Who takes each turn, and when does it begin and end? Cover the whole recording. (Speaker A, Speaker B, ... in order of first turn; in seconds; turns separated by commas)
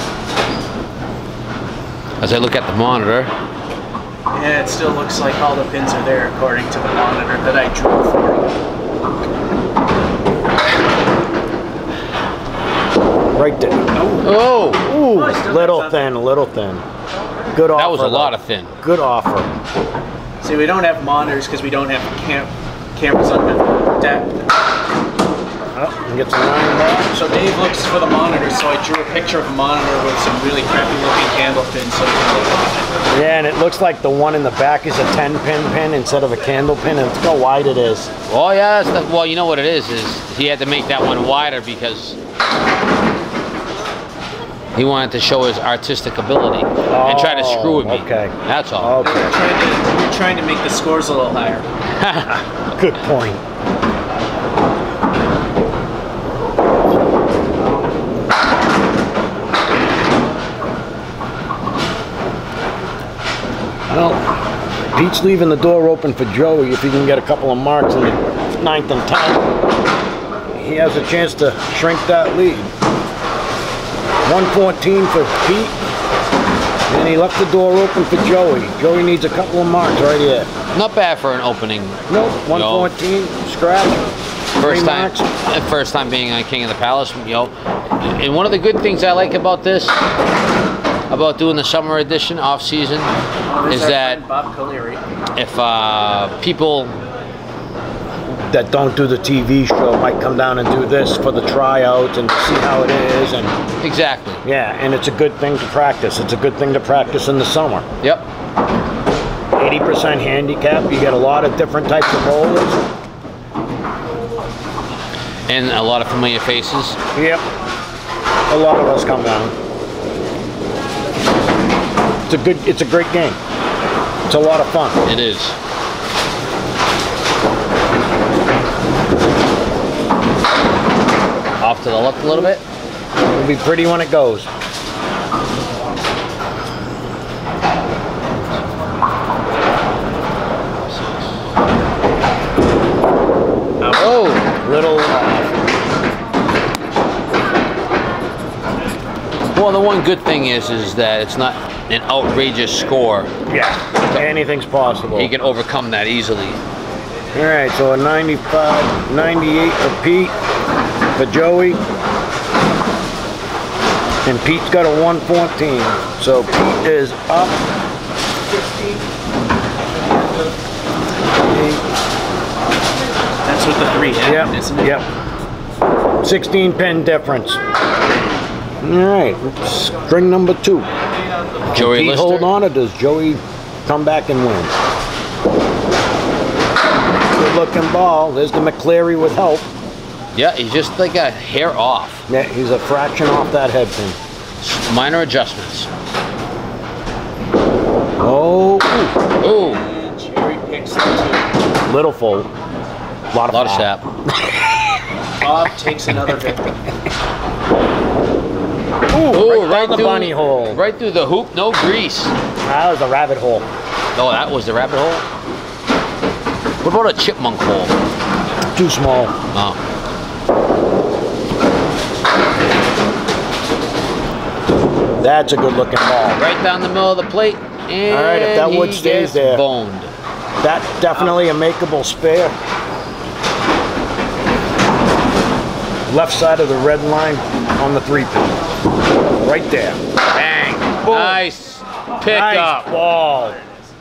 Speaker A: 2.2-3.3, Speaker B: 4.3-8.6, Speaker C: 13.3-13.9, Speaker B: 13.9-16.1, Speaker A: 14.2-14.8, Speaker C: 14.8-16.8, Speaker C: 17.5-19.5, Speaker A: 17.8-18.7, Speaker B: 20.4-24.5, Speaker C: 25.7-27.2, Speaker B: 27.1-32.8, Speaker C: 33.1-38.1, Speaker A: 38.3-42.2, Speaker A: 44.7-49.0, Speaker C: 46.9-49.3, Speaker B: 49.0-51.7, Speaker A: 52.0-52.4, Speaker C: 52.3-53.4, Speaker C: 63.9-64.2, Speaker C: 64.9-69.5, Speaker C: 70.5-72.7, Speaker C: 74.2-75.7, Speaker C: 76.9-80.5, Speaker A: 80.7-82.9, Speaker C: 82.1-85.3, Speaker A: 84.6-90.0, Speaker A: 91.1-93.1, Speaker B: 93.5-95.0, Speaker A: 93.7-94.2, Speaker A: 95.3-97.0, Speaker C: 98.3-103.5, Speaker A: 103.8-104.4, Speaker C: 104.4-107.8, Speaker A: 108.0-108.3, Speaker C: 109.5-112.8, Speaker A: 115.5-117.0, Speaker C: 117.1-117.4, Speaker C: 118.5-119.5, Speaker C: 122.3-123.4, Speaker C: 124.3-125.0, Speaker A: 125.0-125.5, Speaker A: 131.6-132.6, Speaker C: 133.2-134.5, Speaker B: 143.8-144.2, Speaker A: 143.9-144.4, Speaker C: 144.6-145.5, Speaker A: 149.5-153.3, Speaker C: 153.5-155.3, Speaker A: 155.1-156.6, Speaker C: 157.3-160.3, Speaker C: 161.2-161.8, Speaker C: 164.2-167.6, Speaker C: 171.4-171.8, Speaker B: 173.4-175.0, Speaker C: 174.2-175.1, Speaker C: 176.2-177.6, Speaker C: 178.8-180.9, Speaker A: 181.7-182.5, Speaker C: 181.7-184.7, Speaker C: 187.3-189.7, Speaker A: 190.3-192.2, Speaker C: 192.3-194.2, Speaker A: 194.6-195.9, Speaker C: 198.2-199.1, Speaker A: 199.4-199.8, Speaker B: 199.4-201.5, Speaker C: 201.8-202.5, Speaker C: 203.3-204.8, Speaker A: 203.5-204.0, Speaker B: 205.4-206.7, Speaker C: 209.1-210.8, Speaker A: 209.2-212.3, Speaker C: 212.6-213.7, Speaker A: 214.1-215.2, Speaker A: 216.8-217.9, Speaker C: 218.7-219.3, Speaker C: 225.2-226.4, Speaker A: 226.3-230.1, Speaker C: 228.1-229.6, Speaker C: 230.6-232.6, Speaker C: 236.1-238.5, Speaker C: 239.4-240.0, Speaker A: 240.3-242.9, Speaker C: 241.0-241.4, Speaker C: 242.2-243.6